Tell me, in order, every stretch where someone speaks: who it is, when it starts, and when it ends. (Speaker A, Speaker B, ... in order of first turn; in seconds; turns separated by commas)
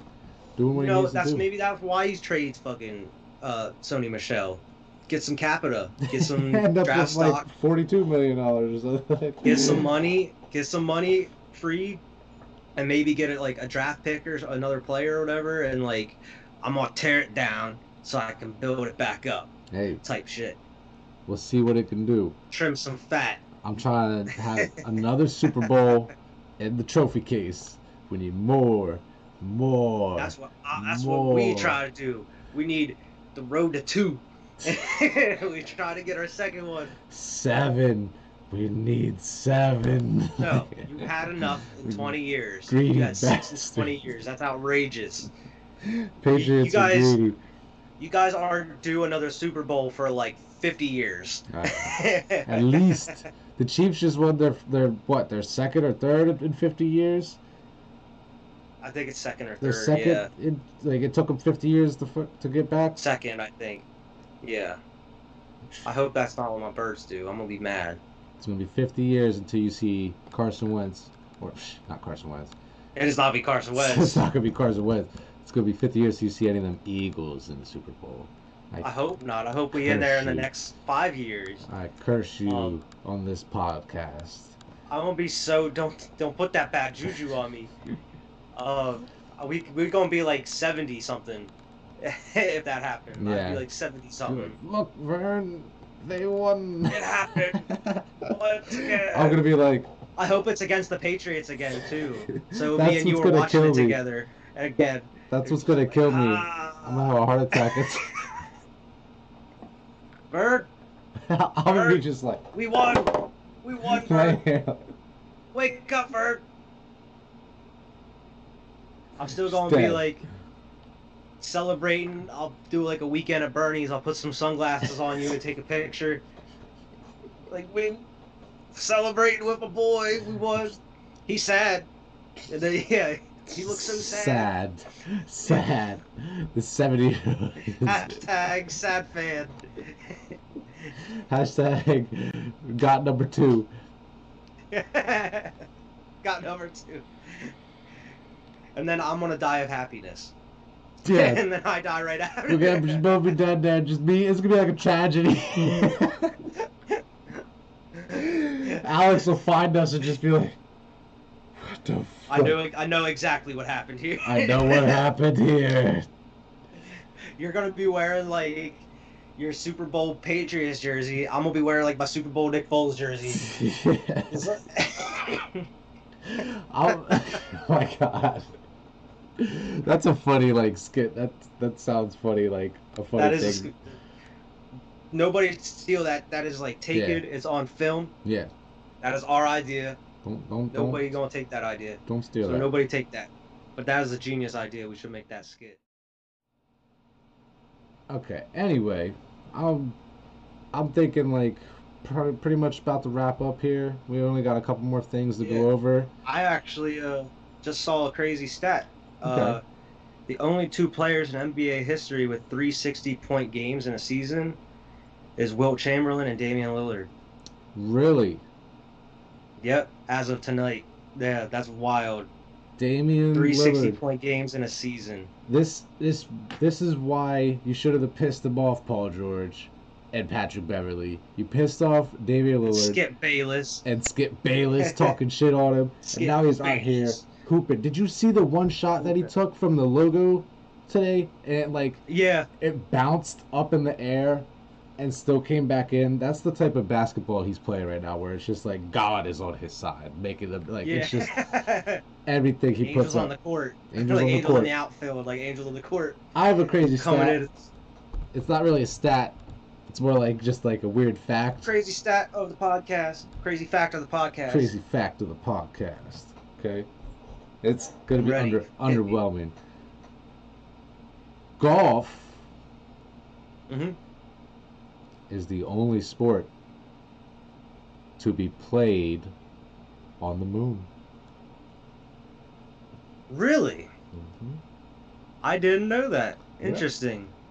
Speaker A: 0.6-1.4, Speaker B: 0.7-7.5, Speaker A: 6.1-9.9, Speaker B: 9.4-12.0, Speaker B: 12.8-19.5, Speaker A: 19.7-20.0, Speaker B: 20.0-20.6, Speaker A: 21.3-22.4, Speaker B: 22.5-23.4, Speaker A: 23.6-31.8, Speaker B: 24.6-24.9, Speaker B: 30.2-36.9, Speaker A: 37.1-42.1, Speaker B: 40.4-45.3, Speaker A: 42.7-44.0, Speaker A: 45.8-47.4, Speaker B: 46.3-47.2, Speaker B: 48.0-53.2, Speaker A: 51.5-57.4, Speaker B: 58.8-60.3, Speaker A: 59.6-63.0, Speaker B: 63.0-63.8, Speaker B: 64.4-64.8, Speaker B: 65.8-68.0, Speaker A: 68.4-72.5, Speaker B: 73.0-74.2, Speaker A: 73.7-78.9, Speaker B: 78.8-81.6, Speaker A: 79.7-80.5, Speaker A: 81.6-84.6, Speaker B: 82.5-82.8, Speaker B: 84.9-87.7, Speaker B: 88.5-94.6, Speaker A: 93.2-93.6, Speaker A: 94.3-99.9, Speaker B: 96.9-97.7, Speaker B: 98.3-99.4, Speaker B: 100.2-108.4, Speaker A: 102.3-104.0, Speaker A: 105.3-108.2, Speaker B: 110.3-110.7, Speaker A: 111.2-112.4, Speaker B: 111.7-112.0, Speaker B: 112.5-114.4, Speaker A: 113.9-114.8, Speaker B: 115.5-116.4, Speaker B: 119.2-120.2, Speaker A: 119.3-120.1, Speaker B: 121.4-126.2, Speaker B: 127.5-128.0, Speaker B: 128.7-131.9, Speaker B: 132.5-134.5, Speaker A: 133.6-138.2, Speaker B: 137.7-140.3, Speaker A: 141.1-143.7, Speaker B: 144.7-145.6, Speaker B: 146.2-147.5, Speaker B: 148.8-150.3, Speaker A: 151.0-151.4, Speaker B: 151.1-153.0, Speaker A: 152.5-156.4, Speaker B: 157.9-159.2, Speaker A: 158.1-160.6, Speaker A: 161.6-162.6, Speaker B: 162.3-165.0, Speaker A: 164.2-166.1, Speaker B: 167.4-173.5, Speaker A: 173.3-174.5, Speaker B: 174.3-175.6, Speaker A: 176.3-178.5, Speaker B: 176.9-177.4, Speaker A: 179.4-183.7, Speaker B: 183.2-183.9, Speaker B: 185.1-188.1, Speaker A: 186.9-187.2, Speaker A: 188.2-188.5, Speaker B: 189.0-190.0, Speaker A: 190.2-191.2, Speaker B: 190.7-195.8, Speaker A: 192.1-192.7, Speaker A: 198.1-200.0, Speaker A: 200.7-206.1, Speaker B: 205.4-205.7, Speaker B: 206.2-209.6, Speaker A: 209.2-209.6, Speaker B: 210.3-214.6, Speaker B: 215.4-217.1, Speaker A: 217.7-218.4, Speaker B: 219.6-222.3, Speaker A: 222.8-224.0, Speaker B: 223.3-225.3, Speaker A: 225.5-233.0, Speaker B: 232.7-233.8, Speaker A: 233.8-242.0, Speaker B: 234.8-235.1, Speaker B: 236.1-237.3, Speaker B: 239.0-239.3, Speaker B: 242.1-242.5, Speaker A: 242.6-251.3, Speaker B: 250.8-252.0, Speaker A: 252.2-253.3, Speaker B: 252.8-256.2, Speaker A: 253.9-254.7, Speaker A: 256.3-257.4, Speaker B: 256.9-257.7, Speaker A: 258.3-261.7, Speaker B: 261.6-264.7, Speaker A: 264.5-266.9, Speaker A: 267.6-269.5, Speaker B: 268.1-269.2, Speaker A: 271.6-272.4, Speaker B: 273.7-273.9, Speaker A: 275.3-276.5, Speaker A: 278.2-279.3, Speaker A: 280.2-280.9, Speaker B: 283.3-283.9, Speaker A: 284.1-284.6, Speaker B: 285.4-287.3, Speaker A: 286.6-286.9